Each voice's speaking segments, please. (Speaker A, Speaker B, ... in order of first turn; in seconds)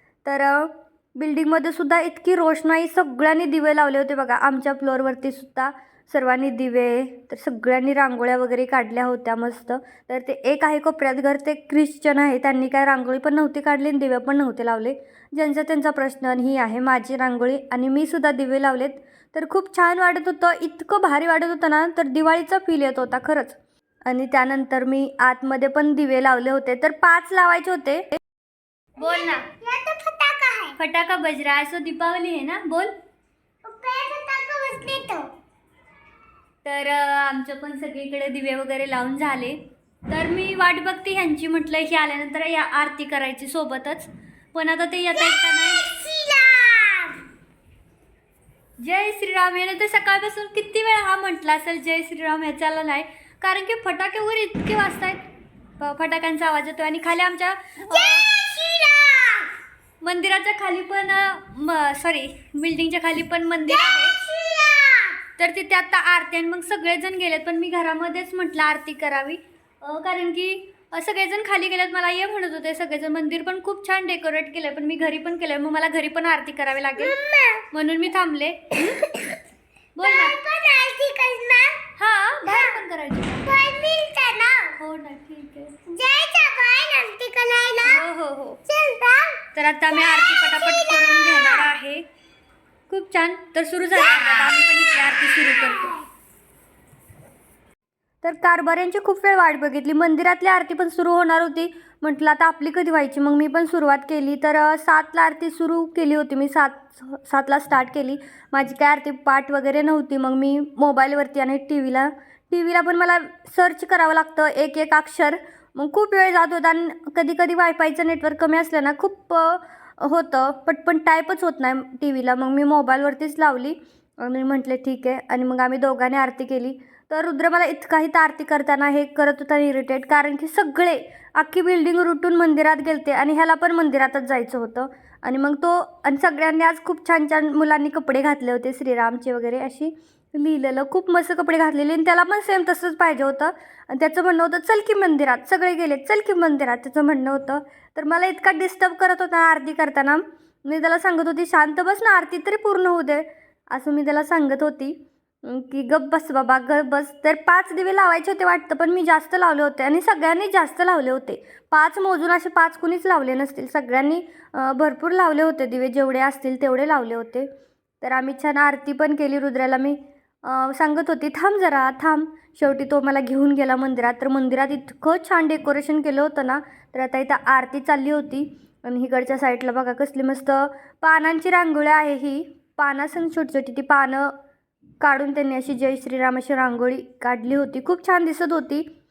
Speaker A: 0.2-28.1, 29.0-29.5, 30.8-32.9, 36.6-45.9, 48.8-55.2, 55.8-58.2, 60.0-64.2, 65.4-77.2, 77.7-79.1, 80.0-80.4, 82.0-83.5, 84.7-85.8, 87.8-88.6, 89.5-92.0, 92.9-95.9, 98.2-167.5, 168.0-184.3, 185.0-188.9
Speaker B: 29.0-30.8, 33.6-35.3, 45.3-47.2, 57.9-59.5, 63.7-65.2, 77.0-77.7, 80.0-81.8, 82.5-82.8, 83.4-84.7, 85.9-88.0, 88.7-89.4, 89.9-91.6